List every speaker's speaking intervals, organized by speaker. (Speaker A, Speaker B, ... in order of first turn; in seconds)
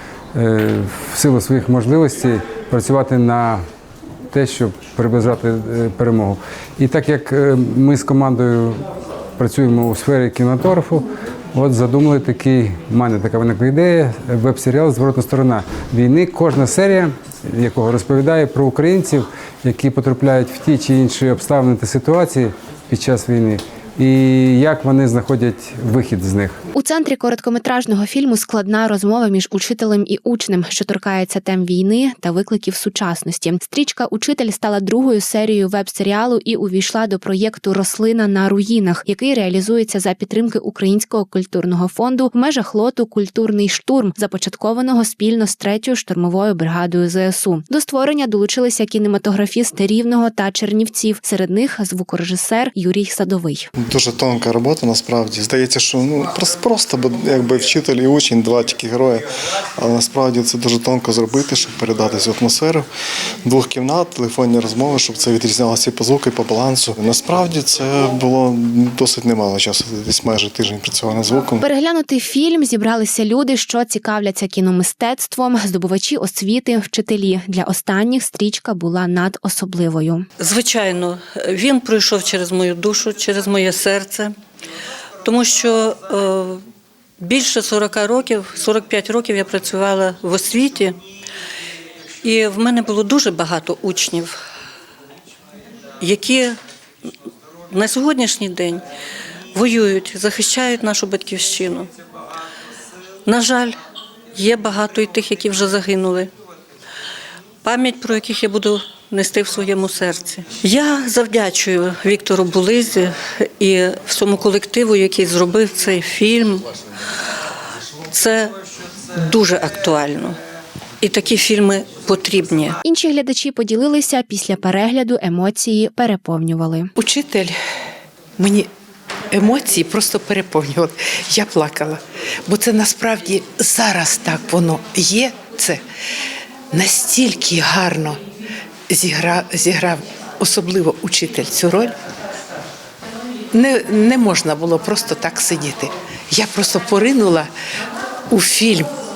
Speaker A: 0.3-3.6, 4.3-8.9, 9.4-26.6
Speaker B: 26.8-53.7, 71.6-80.3, 122.8-126.9
Speaker C: 53.8-59.2, 59.8-62.9, 63.5-71.7
Speaker D: 80.4-84.3, 85.2-86.6, 87.2-91.0, 92.2-94.4, 96.0-96.6, 97.7-98.8, 99.5-101.9, 103.3-103.8, 104.3-106.3, 107.6-116.7, 118.1-118.5, 119.2-120.4, 121.0-122.8
Speaker E: 127.0-127.6, 128.4-128.7, 129.3-135.8, 136.7-138.2, 138.9-142.0, 143.5-147.5, 148.3-148.9